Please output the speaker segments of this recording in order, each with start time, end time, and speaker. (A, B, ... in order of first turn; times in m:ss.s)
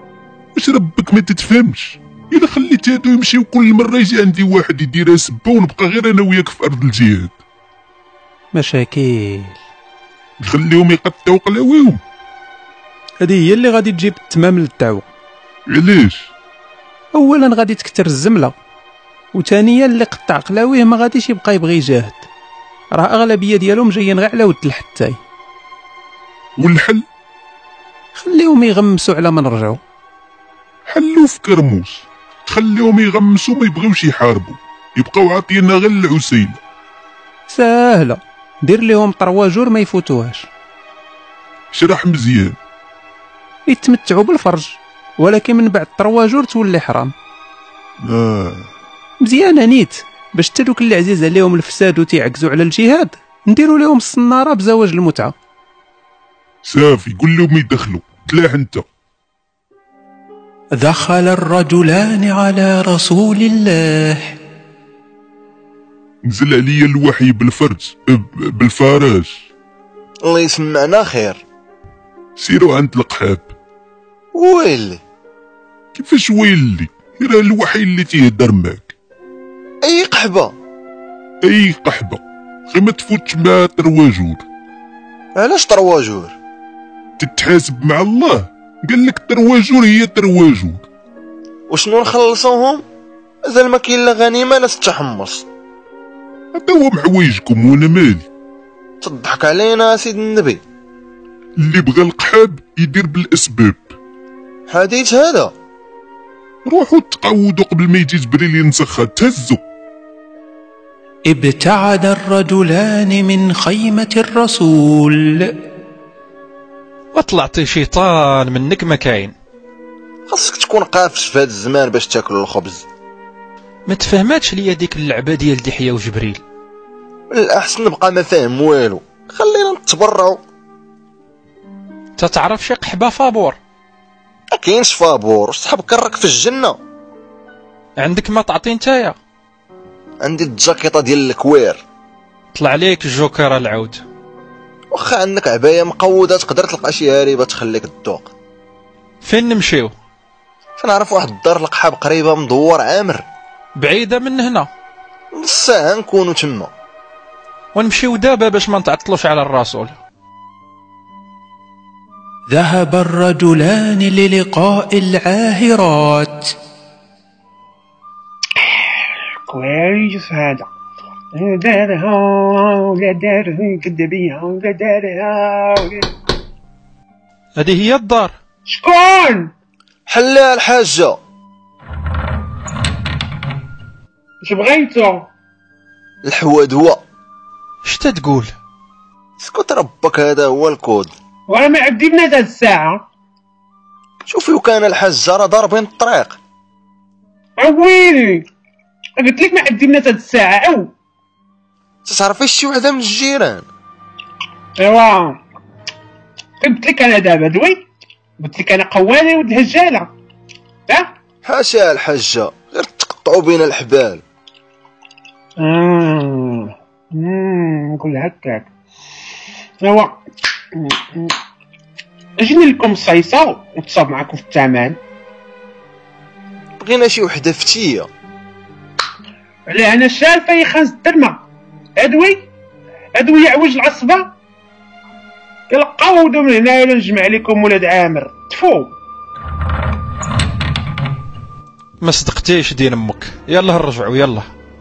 0:00.5-0:07.4 A
0:08.5-0:09.6 B
0:10.4-0:12.0 A
0:13.2-0:15.0 B
0:15.7-0:16.3 A
0:17.1-0:18.5 B
0:19.3-0:22.2 B
0:22.9-0:25.2 B
0:26.6-0:27.0 A
0:28.1-0:29.8 B
0:30.9-0:36.6 A
0:37.5-0:40.5 B
0:41.7-0:42.6 A
0:43.7-0:47.1 B
0:48.0-0:48.7 A
0:49.2-0:55.3 B
0:56.6-0:58.8 A
1:00.8-1:04.3 B
1:06.2-1:09.4 A
1:10.2-1:11.4 C
1:12.4-1:13.5 A
1:14.3-1:15.0 C
1:16.0-1:18.9 A
1:19.8-1:20.5 C
1:21.4-1:24.4 A
1:25.4-1:26.3 C
1:27.2-1:30.8 A
1:31.7-1:32.8 C
1:33.4-1:35.4 C
1:36.5-1:38.2 A
1:39.0-1:40.6 C
1:41.6-1:43.9 A
1:44.7-1:45.5 C
1:46.6-1:49.6 A
1:51.2-1:55.5 B
1:57.1-1:59.3 D
2:00.3-2:02.8 C
2:03.9-2:06.4 D
2:07.3-2:10.4 C
2:12.2-2:13.6 D
2:14.5-2:16.8 C
2:18.0-2:19.2 D
2:20.2-2:21.8 C
2:22.5-2:24.0 D
2:24.9-2:28.3 C
2:29.2-2:29.9 D
2:30.8-2:33.2 C
2:33.8-2:34.7 D
2:35.3-2:36.7 C
2:37.7-2:40.0 D
2:42.5-2:46.5 B
2:49.5-2:50.7 E
2:51.3-2:56.1 E
2:57.6-2:58.3 D
2:58.7-2:59.5 E
3:00.1-3:01.2 C
3:04.4-3:05.3 E
3:06.2-3:07.0 C
3:07.8-3:08.5 D
3:09.4-3:11.1 C
3:11.5-3:13.0 E
3:14.3-3:16.4 C
3:17.6-3:18.4 E
3:19.2-3:20.9 E
3:22.0-3:23.6 C
3:24.8-3:25.4 E
3:26.6-3:27.9 E
3:28.4-3:30.1 E
3:31.4-3:34.2 C
3:35.6-3:38.7 E
3:39.8-3:40.2 E
3:40.8-3:41.3 E
3:42.4-3:45.0 E
3:46.8-3:48.1 C
3:49.7-3:51.4 E
3:52.0-3:52.5 E
3:53.2-3:54.3 E
3:55.7-3:58.9 E
4:02.0-4:04.5 D